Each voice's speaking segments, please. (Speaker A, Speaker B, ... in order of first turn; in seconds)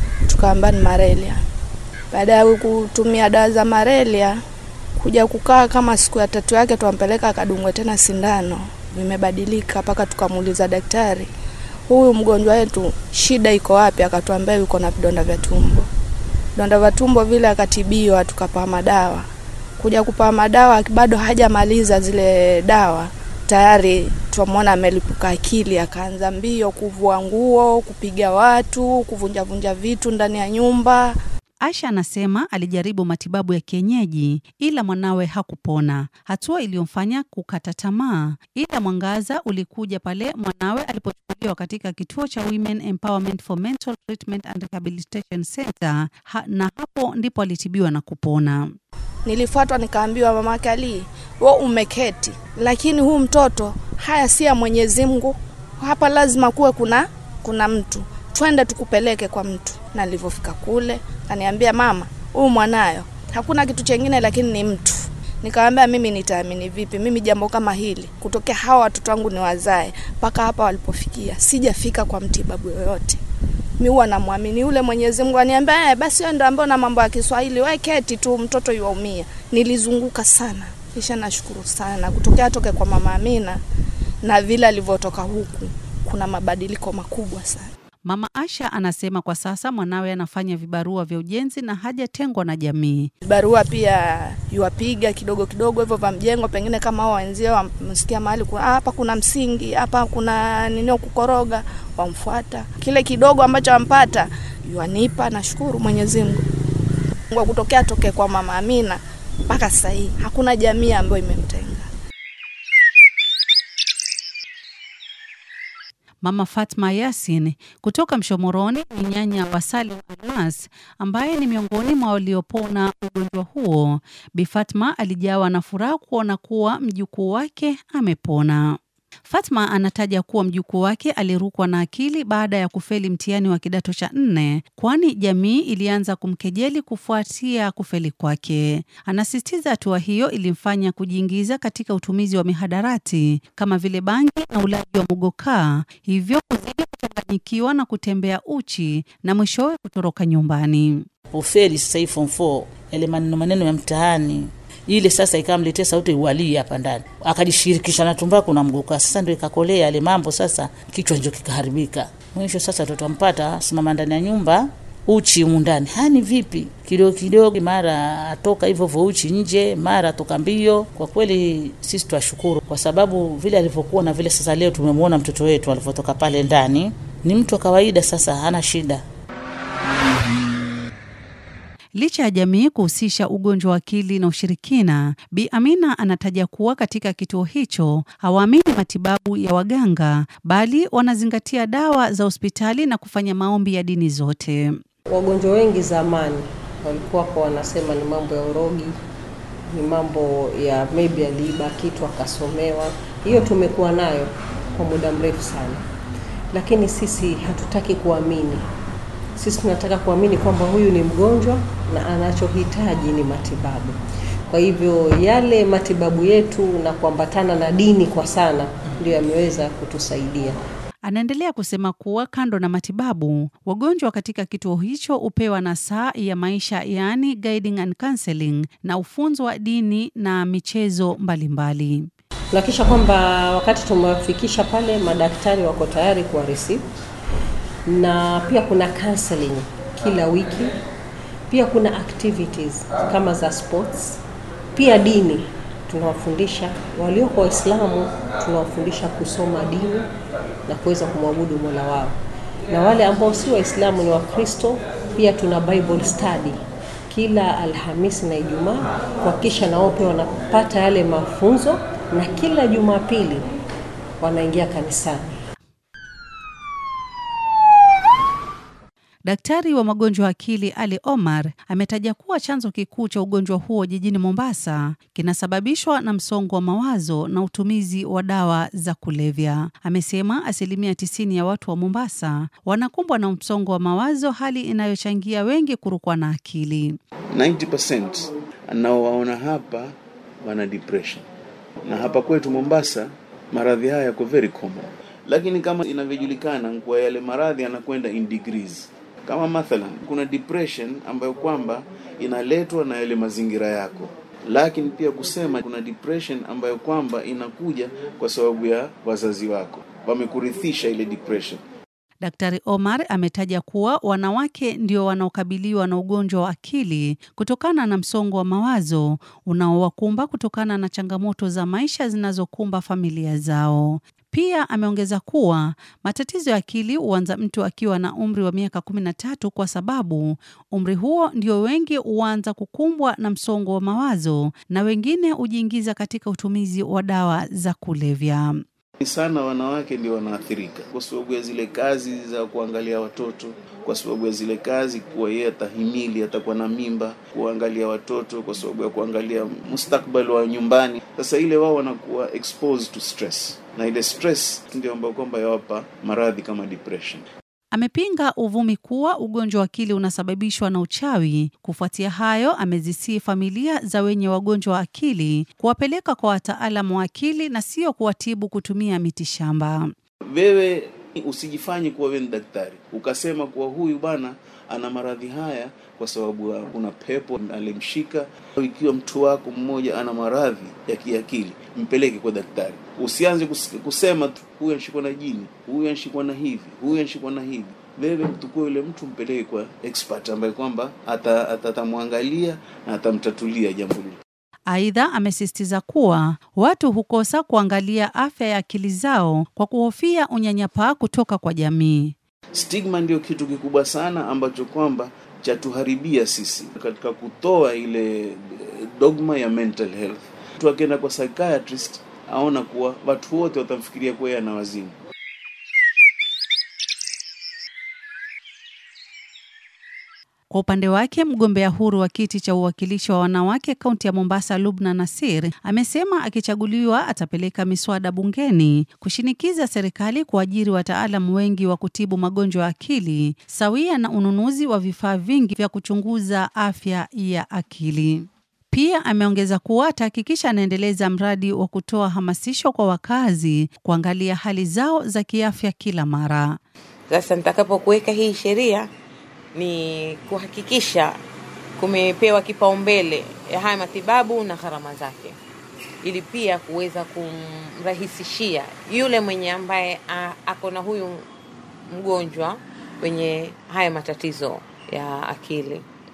Speaker A: 0.3-1.4, 2.1-4.4, 5.0-11.3, 11.9-15.8, 16.6-19.2, 19.8-31.1, 49.2-73.2, 73.8-83.6, 84.2-87.7, 93.2-106.4, 107.3-111.9
Speaker B: 31.6-48.7, 88.0-93.1, 116.2-151.1, 181.9-194.8, 221.0-232.1, 269.2-287.0, 312.2-338.6, 357.7-369.9, 394.7-402.1, 420.5-446.6
Speaker C: 151.3-164.5, 165.2-179.0
Speaker D: 195.1-198.9, 199.7-205.8, 206.5-208.7, 209.3-214.0, 214.5-220.6, 232.5-236.9, 237.8-240.7, 241.5-244.2, 244.7-250.1, 250.7-252.2, 252.7-256.6, 257.1-263.4, 264.2-265.4
Speaker E: 287.3-291.2, 291.9-311.6, 339.0-357.2, 370.3-394.2, 402.5-414.9
Speaker F: 447.1-448.9, 449.5-451.1, 451.8-455.4, 456.0-461.2, 461.9-465.8